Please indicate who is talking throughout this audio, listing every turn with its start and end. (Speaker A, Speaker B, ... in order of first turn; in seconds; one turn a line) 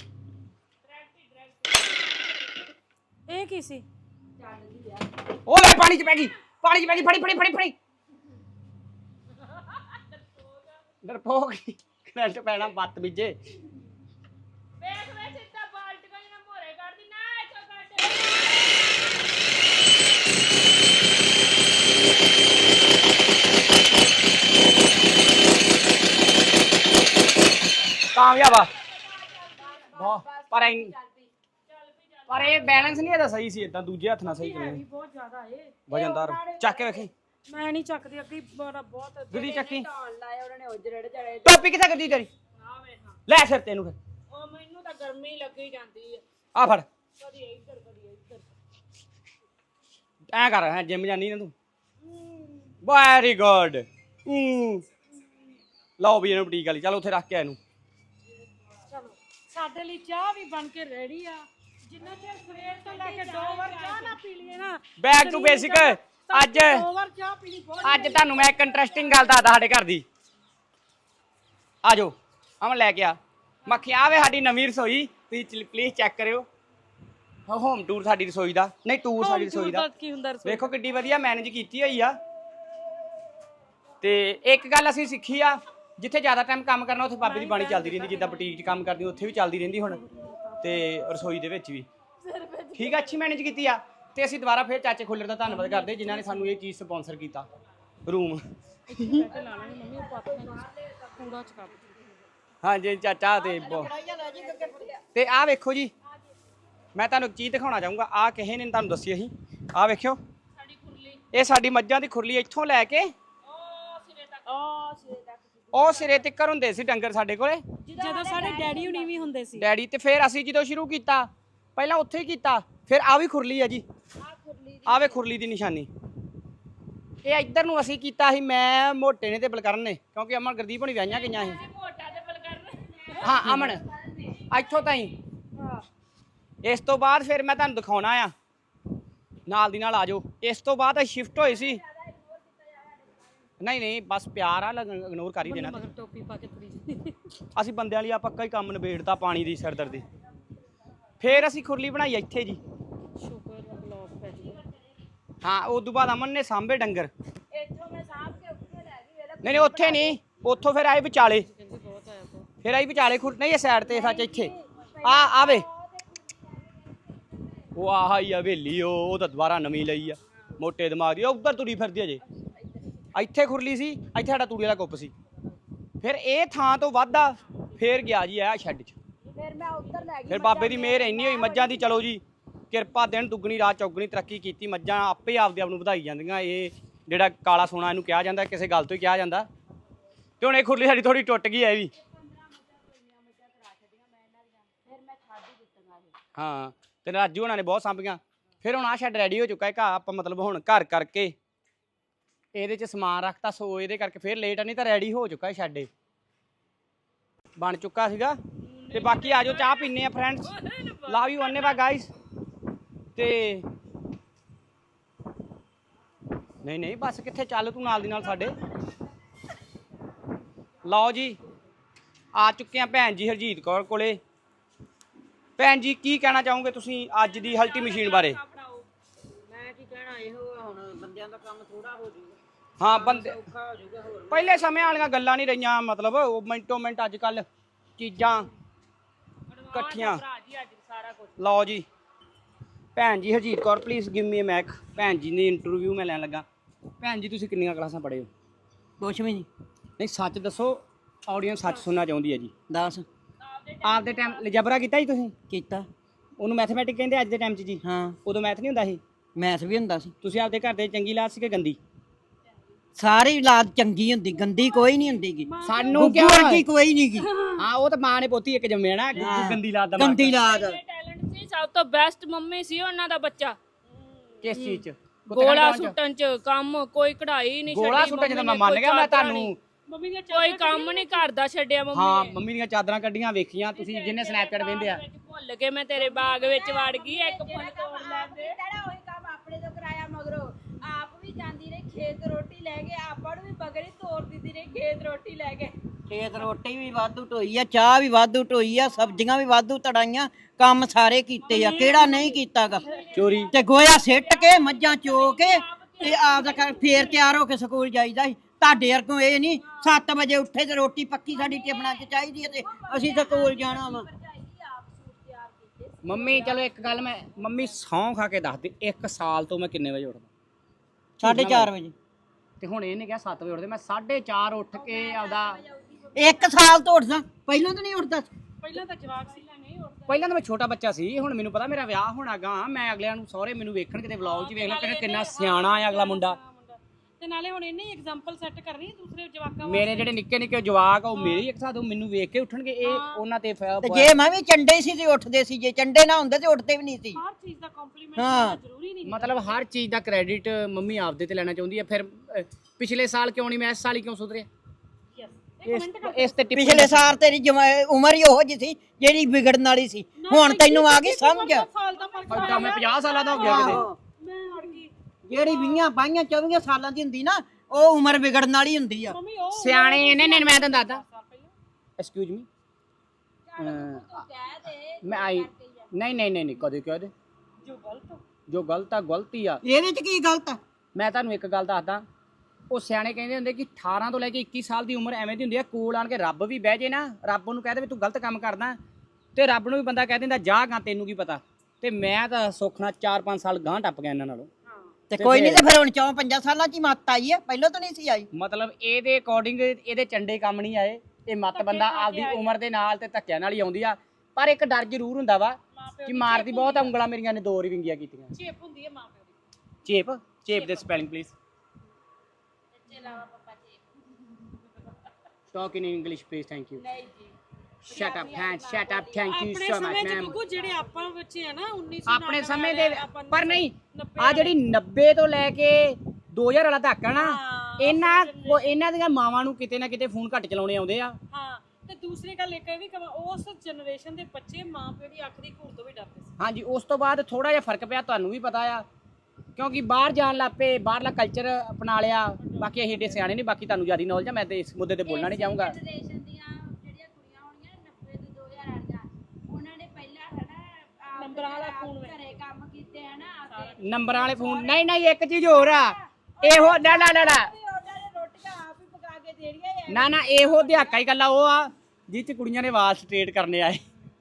Speaker A: 0.8-2.0
Speaker B: 3.3-3.8
Speaker C: 4.4-5.1
Speaker D: 5.5-7.7
Speaker D: 11.0-13.4
Speaker A: 14.8-19.2
Speaker D: 28.1-28.7
Speaker C: 28.4-31.3
Speaker D: 29.9-30.9
Speaker A: 31.7-33.2
Speaker D: 32.3-34.8
Speaker B: 34.3-35.8
Speaker D: 35.9-37.1
Speaker C: 35.9-37.1
Speaker B: 37.5-39.4
Speaker C: 39.3-41.8
Speaker D: 39.3-39.9
Speaker D: 41.4-42.3
Speaker A: 42.6-43.2
Speaker D: 43.3-44.0
Speaker A: 44.3-46.2
Speaker D: 46.5-46.9
Speaker A: 47.2-48.5
Speaker D: 50.3-51.5
Speaker D: 52.8-54.8
Speaker D: 56.0-57.6
Speaker B: 58.9-69.3
Speaker C: 62.5-63.9
Speaker A: 63.2-64.2
Speaker D: 65.0-66.8
Speaker D: 67.8-70.0
Speaker D: 71.8-76.5
Speaker D: 77.5-79.8
Speaker B: 79.2-80.7
Speaker D: 80.4-82.2
Speaker D: 84.0-90.0
Speaker B: 87.2-88.6
Speaker B: 89.9-90.8
Speaker D: 90.6-91.9
Speaker C: 92.2-93.2
Speaker D: 92.7-97.5
Speaker B: 95.6-96.4
Speaker D: 98.1-98.4
Speaker B: 98.9-101.9
Speaker C: 99.1-102.3
Speaker D: 102.6-103.9
Speaker C: 103.2-105.0
Speaker E: 103.6-104.9
Speaker D: 105.1-105.9
Speaker D: 106.9-110.2
Speaker A: 110.5-111.2
Speaker D: 111.3-113.1
Speaker A: 113.4-114.5
Speaker C: 114.5-116.3
Speaker D: 115.7-117.6
Speaker C: 117.8-119.3
Speaker B: 118.0-119.7
Speaker D: 119.5-123.8
Speaker C: 124.2-125.3
Speaker D: 124.8-125.9
Speaker D: 127.2-131.6
Speaker A: 131.1-133.6
Speaker C: 131.2-134.9
Speaker D: 133.2-133.8
Speaker D: 134.5-135.1
Speaker B: 135.6-135.8
Speaker D: 136.6-138.3
Speaker D: 139.5-141.8
Speaker C: 141.3-143.5
Speaker D: 143.6-145.8
Speaker B: 145.4-147.3
Speaker D: 147.5-150.0
Speaker D: 151.2-152.6
Speaker B: 153.2-154.6
Speaker D: 155.4-157.1
Speaker C: 157.5-160.2
Speaker D: 159.4-161.5
Speaker B: 161.4-162.5
Speaker D: 162.6-165.7
Speaker C: 163.8-167.7
Speaker D: 167.7-172.2
Speaker C: 172.2-173.1
Speaker D: 173.1-175.1
Speaker D: 176.0-178.9
Speaker C: 179.3-182.0
Speaker D: 180.3-189.5
Speaker D: 190.4-191.9
Speaker C: 191.9-196.2
Speaker D: 196.3-201.3
Speaker D: 202.5-205.9
Speaker D: 207.6-208.4
Speaker A: 208.6-211.8
Speaker D: 208.9-210.5
Speaker D: 211.1-212.1
Speaker D: 213.1-213.7
Speaker D: 216.6-218.6
Speaker D: 220.8-221.4
Speaker D: 222.3-224.2
Speaker D: 225.6-228.4
Speaker A: 227.2-228.9
Speaker E: 229.5-232.3
Speaker D: 232.8-233.4
Speaker E: 232.9-234.8
Speaker D: 234.3-237.4
Speaker D: 238.0-238.5
Speaker A: 239.5-241.4
Speaker D: 239.7-240.2
Speaker D: 241.4-241.8
Speaker D: 242.9-246.4
Speaker D: 247.0-248.3
Speaker E: 249.0-249.5
Speaker D: 250.0-252.5
Speaker E: 252.7-253.1
Speaker A: 253.4-254.7
Speaker D: 253.8-255.3
Speaker E: 255.5-255.9
Speaker D: 256.4-259.0
Speaker E: 257.8-258.2
Speaker E: 259.4-260.1
Speaker D: 260.2-261.8
Speaker E: 262.9-267.3
Speaker B: 265.4-266.1
Speaker D: 265.6-266.6
Speaker A: 267.2-267.6
Speaker D: 267.6-270.4
Speaker E: 269.2-270.8
Speaker A: 270.3-273.6
Speaker D: 274.4-275.9
Speaker A: 275.3-279.5
Speaker D: 277.7-279.6
Speaker B: 279.9-281.2
Speaker A: 280.3-282.4
Speaker D: 281.9-285.0
Speaker A: 283.6-288.6
Speaker C: 286.0-295.7
Speaker E: 296.1-302.9
Speaker A: 301.4-307.3
Speaker D: 303.1-303.5
Speaker E: 303.5-314.1
Speaker C: 309.6-310.0
Speaker C: 311.3-317.7
Speaker D: 316.0-320.3
Speaker E: 321.2-321.9
Speaker D: 321.2-321.7
Speaker D: 322.6-325.6
Speaker C: 324.7-326.6
Speaker E: 326.1-328.3
Speaker B: 328.6-329.4
Speaker A: 328.7-330.4
Speaker D: 330.1-336.4
Speaker B: 334.2-340.1
Speaker D: 339.6-344.1
Speaker B: 341.1-341.4
Speaker B: 342.8-343.2
Speaker E: 343.8-347.2
Speaker B: 347.1-349.6
Speaker E: 348.1-348.6
Speaker D: 349.0-354.5
Speaker B: 355.1-356.6
Speaker D: 355.6-357.0
Speaker E: 356.5-361.7
Speaker B: 360.2-365.9
Speaker D: 362.3-363.8
Speaker E: 363.3-363.9
Speaker E: 365.2-369.2
Speaker B: 369.1-371.5
Speaker D: 369.5-371.0
Speaker D: 372.0-372.5
Speaker C: 373.5-375.9
Speaker D: 373.6-374.2
Speaker D: 375.0-377.1
Speaker B: 377.6-378.2
Speaker D: 378.5-379.6
Speaker E: 379.6-380.6
Speaker D: 380.9-382.0
Speaker D: 382.7-388.8
Speaker D: 389.3-394.5
Speaker B: 394.7-394.9
Speaker E: 395.1-398.3
Speaker D: 395.2-395.6
Speaker D: 398.3-408.3
Speaker B: 401.5-402.6
Speaker B: 405.7-406.9
Speaker B: 408.3-409.4
Speaker D: 409.8-411.3
Speaker B: 410.5-410.9
Speaker C: 412.7-413.9
Speaker D: 415.5-416.8
Speaker C: 416.7-417.3
Speaker D: 417.8-420.3
Speaker C: 417.9-421.1
Speaker B: 419.3-424.6
Speaker D: 422.1-431.2
Speaker B: 427.1-428.6
Speaker B: 431.3-436.3
Speaker D: 436.4-438.8
Speaker D: 439.6-445.8
Speaker B: 442.4-443.0
Speaker C: 445.0-454.8
Speaker B: 451.2-452.1
Speaker B: 453.5-453.8
Speaker D: 453.8-457.5
Speaker C: 455.4-461.0
Speaker D: 459.9-463.8